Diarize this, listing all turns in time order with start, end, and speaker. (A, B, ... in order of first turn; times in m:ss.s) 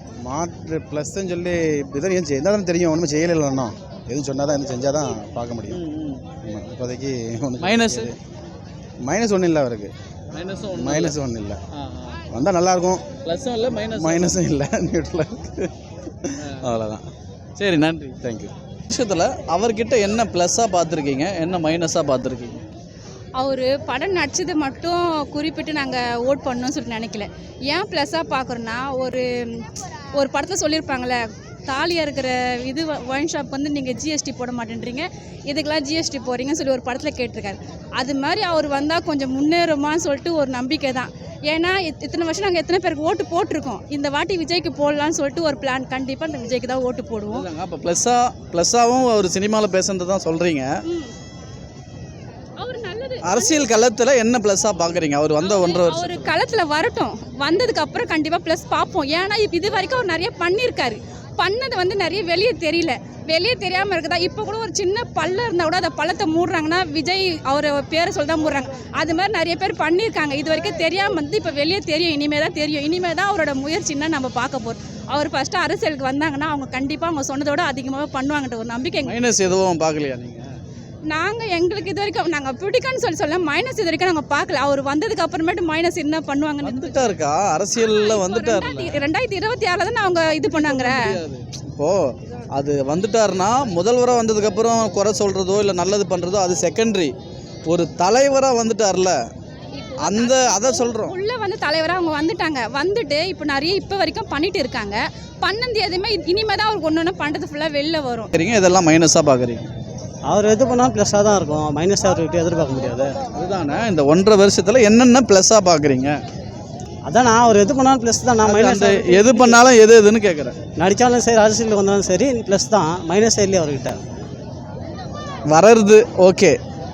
0:00.2-0:05.8 A
0:05.7-0:06.2 B
0:06.4-0:08.2 A
0:07.6-0:08.1 B
0:09.0-0:09.9 A
0:10.3-0:11.2 B
0:10.7-0:11.6 A
0:11.7-0:12.2 B
0:12.3-0:13.0 A
0:13.2-0:14.4 B
0:13.9-0:15.7 A
0:16.2-0:17.0 A
0:16.4-0:16.7 B
0:17.6-0:18.2 B
0:18.2-0:18.5 A
0:18.9-0:22.6 B
0:23.4-0:29.6 C
0:30.2-0:47.4 C
0:47.3-0:50.7 B
0:50.9-0:51.1 C
0:52.6-0:53.7 C
0:53.2-0:56.3 B
0:55.4-1:19.2 C
1:19.0-1:20.4 B
1:21.1-1:27.1 C
1:26.6-1:29.0 B
1:27.8-1:31.2 C
1:30.4-1:32.0 B
1:32.5-1:37.1 B
1:37.7-1:39.2 B
1:39.8-1:48.3 C
1:40.0-1:41.1 B
1:48.3-1:49.7 B
1:50.3-1:53.1 D
1:53.3-1:56.2 B
1:57.0-1:59.6 D
1:58.4-2:00.5 B
2:00.8-2:04.0 D
2:05.5-2:06.6 B